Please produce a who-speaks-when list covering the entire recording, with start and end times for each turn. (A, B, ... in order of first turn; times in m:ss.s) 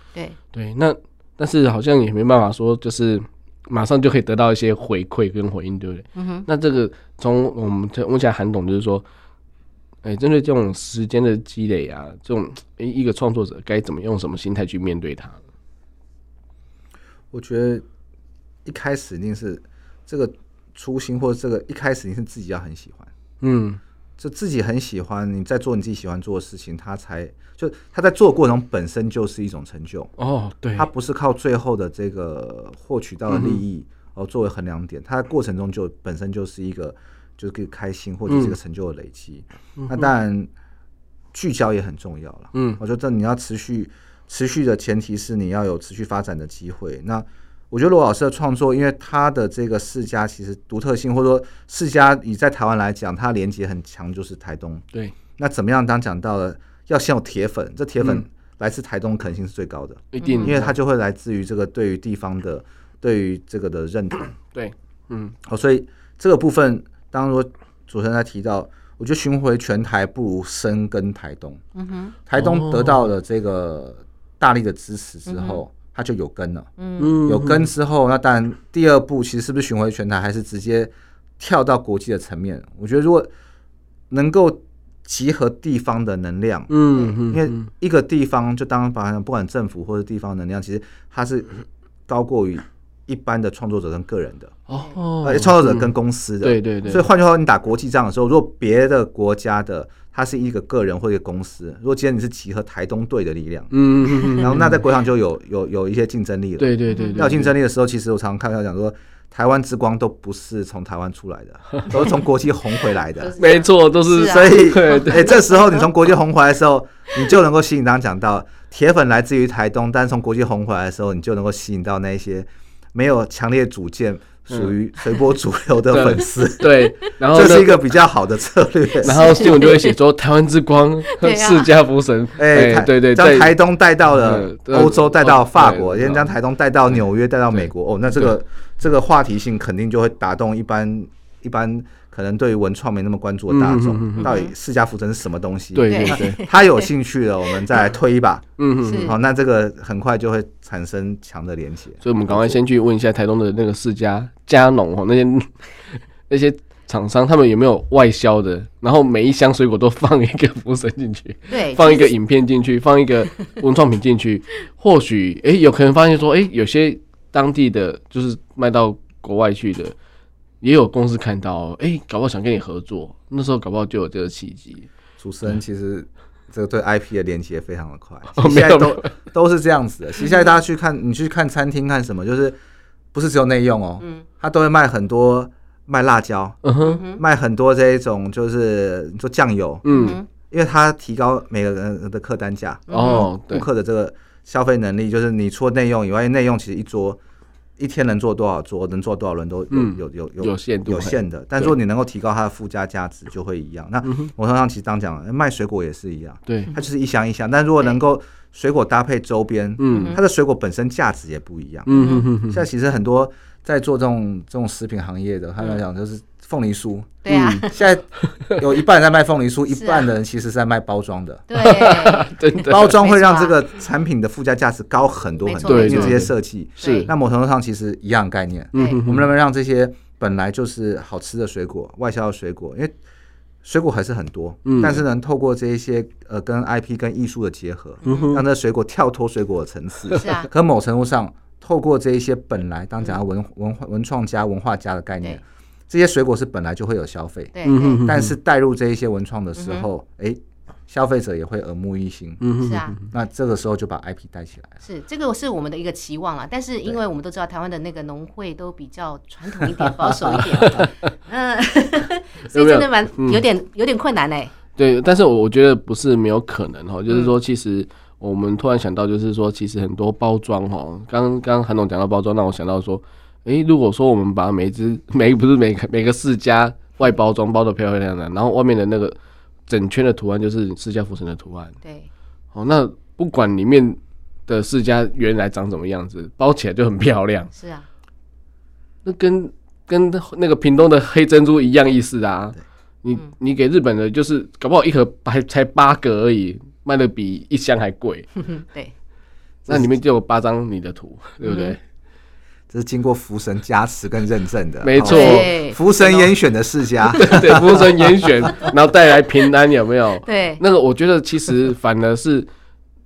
0:00.5-0:09.0 A
0:06.2-0:06.5 B
0:10.0-0:15.4 A
0:17.3-0:17.8 C
0:18.6-0:23.1 C
0:23.4-0:23.8 A
0:24.2-0:30.1 C
0:30.2-0:30.9 A
0:30.8-0:40.5 C
0:33.3-0:33.6 A
0:38.3-0:38.6 A
0:39.8-0:40.1 A
0:41.3-0:54.8 C
0:42.5-0:42.8 A
0:55.4-1:04.3 C
1:00.1-1:00.8 A
1:00.2-1:00.5 B
1:04.5-1:05.4 A
1:05.4-1:11.6 C
1:11.8-1:12.2 B
1:12.3-1:16.7 C
1:12.4-1:13.1 A
1:15.3-1:15.6 B
1:16.8-1:17.2 B
1:17.0-1:17.7 A
1:17.3-1:23.3 C
1:24.1-1:31.5 C
1:26.7-1:27.7 A
1:32.1-1:34.6 C
1:34.7-1:37.0 A
1:35.2-1:43.7 C
1:43.7-1:44.8 A
1:44.3-1:53.3 C
1:46.6-1:47.5 A
1:46.9-1:47.3 B
1:53.2-1:55.8 B
1:53.4-1:55.4 A
1:54.2-2:09.6 C
2:05.9-2:07.9 A
2:09.0-2:13.6 A
2:09.0-2:10.0 B
2:11.1-2:11.7 B
2:12.4-2:28.5 C
2:14.1-2:16.3 A
2:17.5-2:18.3 A
2:23.5-2:24.3 A
2:24.2-2:24.5 B
2:25.7-2:26.4 A
2:25.9-2:26.9 B
2:28.6-2:29.2 A
2:28.8-2:29.2 B
2:29.0-2:32.6 C
2:32.0-2:35.5 A
2:36.3-2:50.0 A
2:41.5-2:42.1 B
2:50.6-2:54.9 A
2:55.2-3:02.6 C
2:58.4-2:59.1 A
3:00.2-3:00.5 B
3:03.1-3:17.2 C
3:06.6-3:07.0 A
3:06.8-3:07.2 B
3:09.8-3:10.2 A
3:09.9-3:10.3 B
3:12.9-3:13.3 B
3:12.9-3:13.6 A
3:17.8-3:41.5 C
3:19.7-3:21.7 A
3:24.0-3:24.3 A
3:26.5-3:26.7 A
3:29.8-3:30.2 A
3:29.9-3:30.2 B
3:31.9-3:32.6 A
3:31.9-3:32.3 B
3:37.2-3:37.9 B
3:37.3-3:37.7 A
3:38.2-3:38.6 A
3:39.7-3:40.1 B
3:41.5-3:43.6 B
3:41.6-3:42.9 A
3:42.7-3:53.0 C
3:45.4-3:46.2 B
3:45.6-3:47.1 A
3:46.8-3:47.1 B
3:48.7-3:49.3 A
3:48.8-3:49.0 B
3:53.6-4:12.5 C
3:54.6-3:55.0 A
3:58.0-3:58.3 B
3:58.0-3:58.4 A
4:00.2-4:00.5 B
4:07.5-4:08.1 B
4:07.6-4:08.4 A
4:09.6-4:09.9 B
4:12.4-4:13.1 A
4:12.6-4:13.0 B
4:13.0-4:14.8 C
4:14.8-4:24.5 B
4:20.5-4:21.1 A
4:22.5-4:23.4 A
4:24.8-4:39.2 A
4:39.7-4:41.7 A
4:41.8-4:42.1 B
4:42.5-4:47.5 A
4:47.6-4:47.9 B
4:49.0-4:58.3 A
4:58.4-4:58.9 B
4:59.7-5:01.8 A
5:01.4-5:01.8 B
5:02.7-5:08.5 C
5:04.8-5:05.5 A
5:05.0-5:06.3 B
5:07.2-5:12.5 A
5:10.2-5:10.6 B